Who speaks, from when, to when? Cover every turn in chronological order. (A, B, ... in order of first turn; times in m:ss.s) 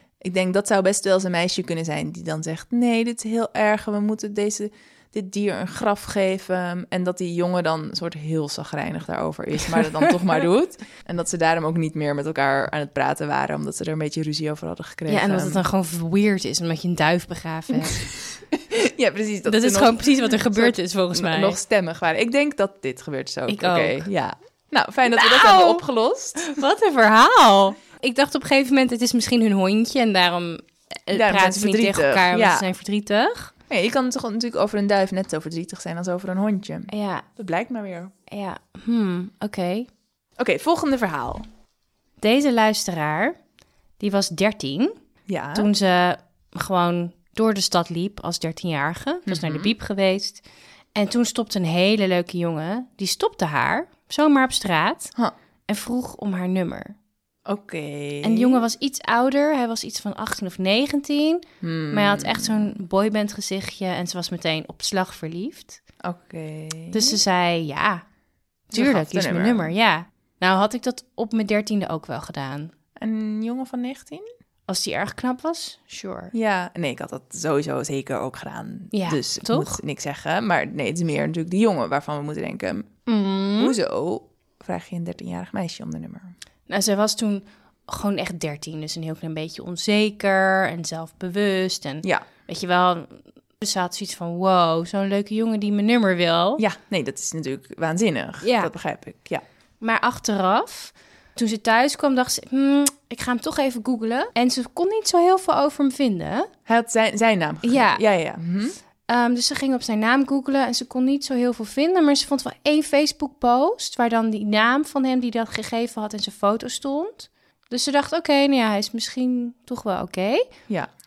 0:00.2-0:15.6 A
0:15.1-0:18.0 B
0:17.8-0:26.5 A
0:19.4-0:21.6 B
0:23.5-0:24.1 B
0:25.1-0:25.8 B
0:26.4-0:33.5 B
0:31.1-0:32.6 A
0:33.7-0:38.1 A
0:36.9-0:37.2 B
0:38.3-0:39.9 B
0:40.4-0:41.4 A
0:42.2-0:43.3 B
0:44.0-0:44.9 B
0:45.3-0:45.7 A
0:45.5-0:50.4 B
0:49.3-0:49.7 A
0:50.9-0:55.1 B
0:55.7-0:56.9 B
0:57.5-0:58.6 A
0:58.2-1:05.8 B
1:01.6-1:02.7 A
1:06.0-1:07.2 A
1:06.9-1:08.0 B
1:08.7-1:12.7 B
1:08.7-1:09.7 A
1:13.0-1:14.3 A
1:14.7-1:16.3 B
1:16.3-1:23.0 A
1:18.9-1:19.8 B
1:23.0-1:23.8 B
1:23.6-1:26.3 A
1:26.7-1:36.6 B
1:36.6-1:39.4 A
1:38.4-1:38.7 B
1:39.8-1:46.5 B
1:46.6-1:48.8 A
1:47.6-1:48.0 B
1:49.1-2:00.5 B